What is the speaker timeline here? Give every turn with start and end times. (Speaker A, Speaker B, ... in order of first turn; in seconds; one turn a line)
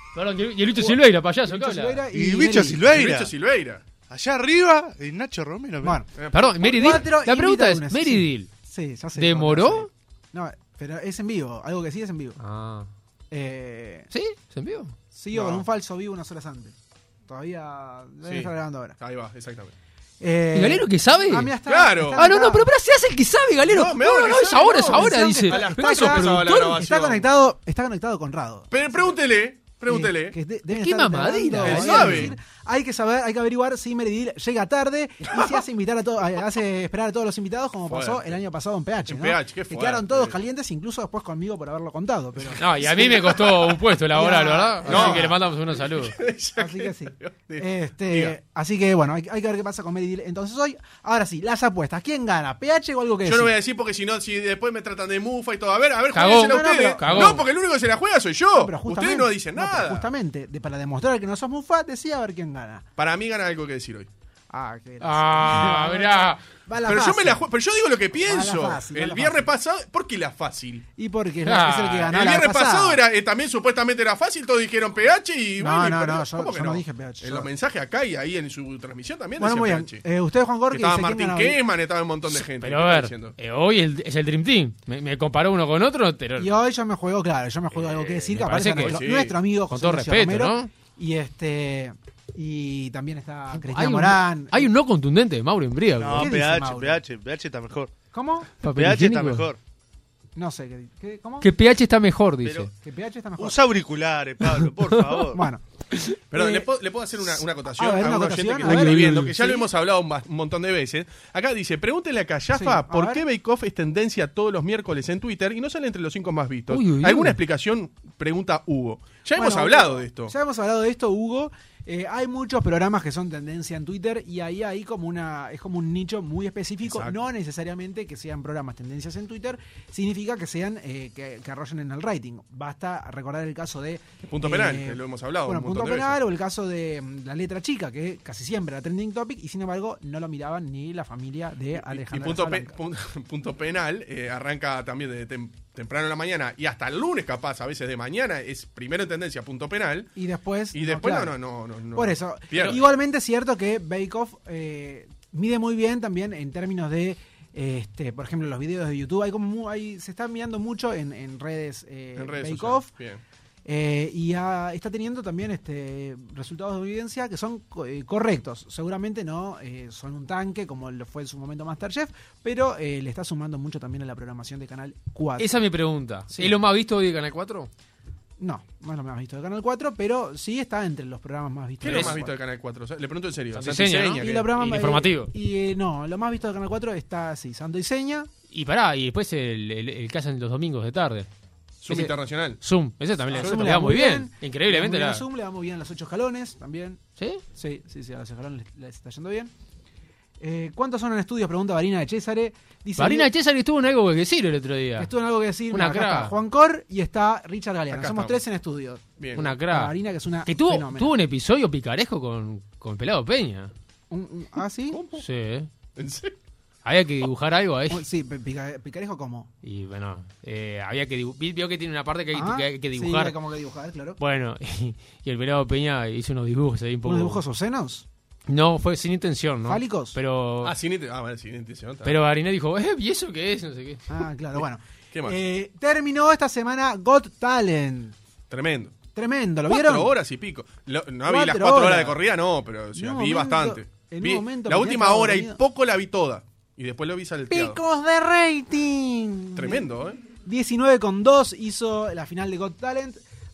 Speaker A: 0.1-2.0
Speaker B: 0.8-3.0
Speaker C: 2.1-3.3
Speaker D: 2.9-3.8
Speaker C: 4.1-6.0
Speaker D: 6.2-7.0
Speaker A: 6.3-8.5
Speaker B: 6.6-12.4
Speaker A: 9.2-9.9
Speaker A: 12.4-12.9
Speaker B: 13.3-14.1
Speaker A: 14.1-14.9
Speaker B: 15.1-16.8
Speaker D: 15.3-15.7
Speaker B: 17.3-19.0
Speaker D: 18.2-19.7
Speaker B: 20.2-22.7
Speaker A: 20.5-21.5
Speaker D: 21.7-22.2
Speaker A: 22.2-26.8
Speaker D: 23.7-27.3
Speaker B: 24.4-29.1
Speaker D: 28.7-30.4
Speaker B: 29.9-45.4
Speaker A: 30.7-32.3
Speaker D: 31.6-32.4
Speaker D: 37.9-38.4
Speaker D: 39.1-40.4
Speaker D: 42.4-43.5
Speaker A: 42.6-46.1
Speaker D: 44.9-48.4
Speaker B: 46.6-53.5
Speaker D: 53.2-60.1
Speaker A: 56.1-57.4
Speaker B: 56.2-57.5
Speaker B: 58.5-62.9
Speaker D: 63.0-64.1
Speaker B: 64.5-67.5
Speaker A: 65.0-66.4
Speaker D: 66.9-70.9
Speaker B: 68.2-69.5
Speaker B: 71.0-73.0
Speaker A: 71.5-72.1
Speaker D: 72.1-80.0
Speaker B: 75.6-77.5
Speaker B: 79.4-81.6
Speaker D: 80.7-83.4
Speaker A: 82.6-86.5
Speaker B: 86.4-94.7
Speaker D: 87.7-89.3
Speaker A: 88.3-89.0
Speaker A: 89.7-90.7
Speaker A: 93.5-96.3
Speaker C: 96.0-97.9
Speaker B: 96.1-97.0
Speaker B: 98.1-98.5
Speaker A: 98.6-99.5
Speaker C: 98.7-99.6
Speaker B: 100.4-101.5
Speaker A: 101.4-102.7
Speaker C: 102.4-102.7
Speaker B: 102.8-103.6
Speaker C: 103.4-105.4
Speaker A: 104.6-105.2
Speaker B: 105.3-105.6
Speaker D: 106.3-120.3
Speaker B: 106.3-109.7
Speaker A: 108.7-109.3
Speaker B: 112.5-113.2
Speaker A: 116.7-117.4
Speaker B: 119.3-142.7
Speaker D: 126.8-127.2
Speaker D: 134.3-136.2
Speaker D: 141.8-150.1
Speaker B: 150.2-151.4
Speaker D: 150.7-152.9
Speaker B: 151.9-162.9
Speaker D: 162.2-163.2
Speaker B: 163.7-175.5
Speaker A: 175.4-177.7
Speaker B: 176.3-176.6
Speaker B: 178.4-182.3
Speaker D: 181.8-184.5
Speaker A: 181.8-182.2
Speaker A: 183.5-185.3
Speaker B: 184.2-188.3
Speaker A: 188.5-191.3
Speaker D: 191.8-192.6
Speaker A: 191.9-195.2
Speaker B: 193.3-197.0
Speaker D: 193.3-193.6
Speaker B: 197.5-199.5
Speaker B: 200.4-203.3
Speaker A: 203.0-205.1
Speaker B: 205.0-209.0
Speaker A: 205.7-206.3
Speaker D: 207.9-208.4
Speaker D: 209.2-209.5
Speaker A: 209.4-209.9
Speaker B: 209.6-211.1
Speaker A: 210.5-213.7
Speaker B: 214.1-215.0
Speaker D: 214.9-215.2
Speaker A: 215.2-215.7
Speaker D: 216.0-216.3
Speaker A: 216.8-218.0
Speaker B: 217.9-219.5
Speaker A: 219.6-223.3
Speaker B: 222.3-224.2
Speaker A: 224.2-227.4
Speaker B: 227.0-228.1
Speaker A: 228.5-230.7
Speaker B: 229.7-230.2
Speaker D: 230.6-232.1
Speaker A: 232.1-234.0
Speaker B: 234.1-238.2
Speaker D: 235.1-235.4
Speaker D: 238.5-238.9
Speaker B: 239.2-240.1
Speaker D: 239.7-247.8
Speaker B: 241.2-242.2
Speaker B: 242.9-245.6
Speaker B: 247.5-249.9
Speaker D: 249.6-250.2
Speaker B: 250.4-253.2